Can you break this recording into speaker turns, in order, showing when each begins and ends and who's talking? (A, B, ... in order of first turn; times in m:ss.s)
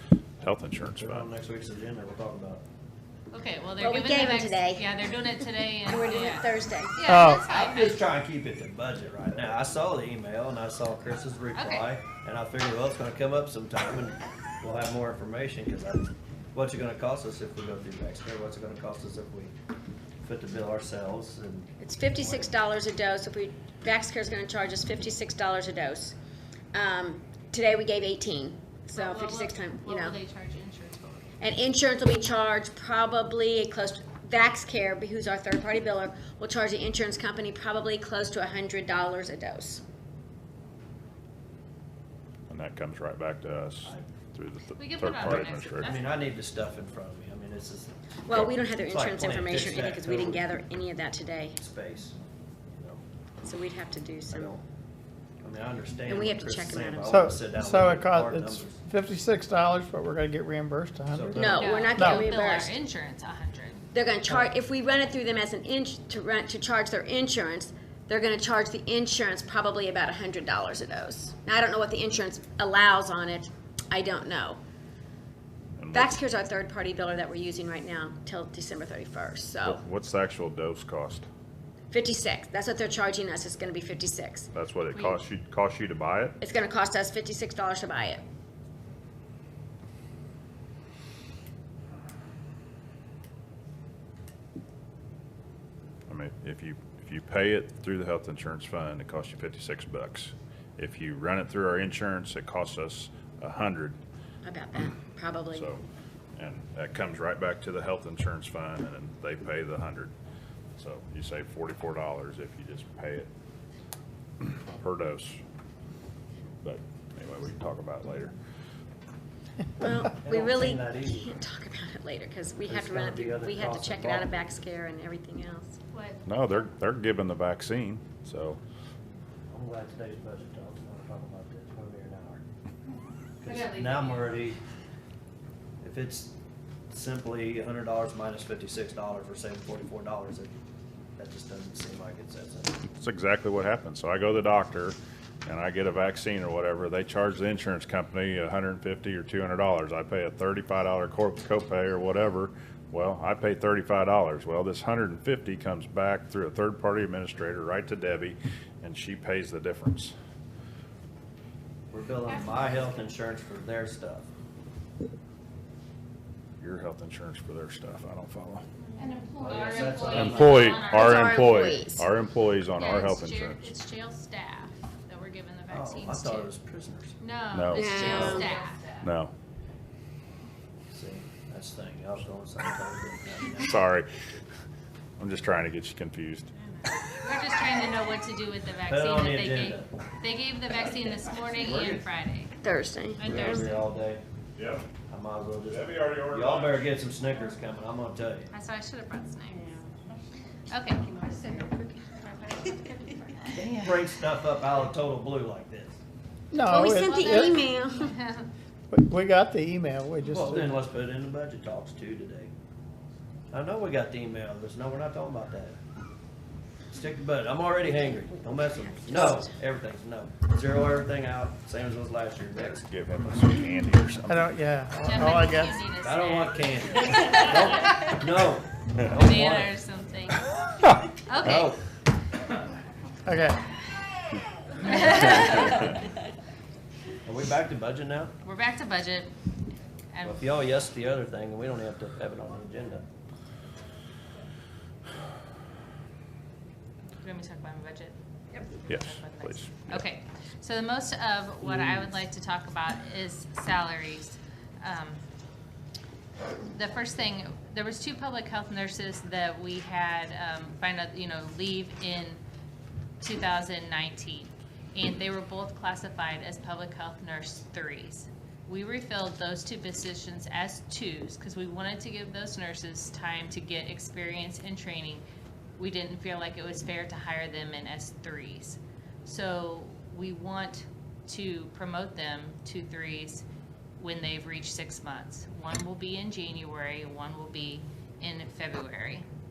0:00.4-0:01.3 A
0:00.9-0:02.6 B
0:03.3-0:08.0 C
0:03.8-0:04.9 D
0:05.8-0:07.0 D
0:07.0-0:07.5 E
0:07.4-0:19.5 B
0:11.5-0:11.9 C
0:20.2-0:22.5 B
0:21.8-0:26.2 D
0:26.7-0:30.2 D
0:28.9-0:31.4 C
0:31.4-0:39.8 D
0:42.5-0:45.9 A
0:44.8-0:46.2 C
0:45.2-0:48.0 B
0:48.2-0:51.6 D
0:48.5-0:50.5 B
0:51.6-0:52.2 B
0:52.8-0:53.0 B
0:53.4-0:54.5 D
0:54.3-0:54.6 B
0:55.4-0:58.8 B
0:56.1-0:57.2 D
0:57.0-1:02.3 E
1:01.1-1:01.8 B
1:01.4-1:02.8 D
1:01.5-1:03.8 C
1:03.9-1:14.6 D
1:15.8-1:16.2 A
1:15.9-1:19.8 D
1:19.6-1:21.3 A
1:21.9-1:24.5 D
1:24.5-1:26.4 A
1:24.9-1:25.2 C
1:26.4-1:28.2 D
1:36.1-1:44.0 A
1:44.4-1:45.7 D
1:45.5-1:45.8 A
1:46.4-1:50.1 A
1:50.8-1:53.3 A
1:54.4-1:55.4 A
1:56.6-1:58.3 A
1:59.8-2:05.8 D
2:00.2-2:01.3 B
2:02.7-2:04.3 B
2:05.9-2:06.2 C
2:06.3-2:08.6 A
2:09.5-2:12.4 B
2:13.4-2:14.6 B
2:13.4-2:14.5 C
2:15.8-2:16.3 B
2:16.9-2:20.6 B
2:21.2-2:22.8 B
2:23.0-2:40.2 A
2:41.9-2:44.3 B
2:46.6-2:48.6 A
2:49.0-2:51.5 C
2:49.4-2:50.9 B
2:50.1-2:53.7 A
2:50.8-2:52.0 D
2:52.8-2:56.5 C
2:55.7-2:57.1 B
2:57.2-2:58.9 C
2:57.5-2:58.5 A
2:57.7-2:58.6 D
2:58.1-2:58.5 B
2:59.0-2:59.3 A
3:00.9-3:03.8 B
3:03.7-3:04.1 A
3:05.2-3:06.5 A
3:07.2-3:12.5 C
3:08.9-3:09.9 B
3:12.6-3:13.7 D
3:13.2-3:13.9 C
3:13.2-3:14.2 B
3:14.6-3:14.8 A
3:15.1-3:18.5 B
3:15.7-3:16.9 A
3:18.5-3:19.6 C
3:20.7-3:21.2 C
3:23.6-3:26.0 B
3:26.5-3:27.6 E
3:26.7-3:28.2 D
3:27.0-3:28.5 C
3:28.9-3:30.8 E
3:30.3-3:32.5 B
3:33.5-3:35.8 B
3:36.9-3:42.8 B
3:38.6-3:39.5 D
3:42.6-3:44.5 A
3:44.3-3:45.9 E
3:45.0-3:48.2 C
3:46.0-3:49.7 B
3:49.1-3:50.4 C
3:51.3-3:51.7 C
3:51.4-3:51.8 B
3:53.3-3:53.6 E
3:54.8-3:55.9 C
3:57.2-3:58.3 B
3:58.4-3:59.3 C
4:00.1-4:00.6 C
4:00.2-4:03.0 B
4:07.2-4:08.2 C
4:08.8-4:15.2 C
4:08.9-4:10.0 A
4:11.6-4:12.0 B
4:16.7-4:22.4 C
4:23.2-4:35.2 C
4:35.8-4:43.4 C
4:44.0-4:49.3 C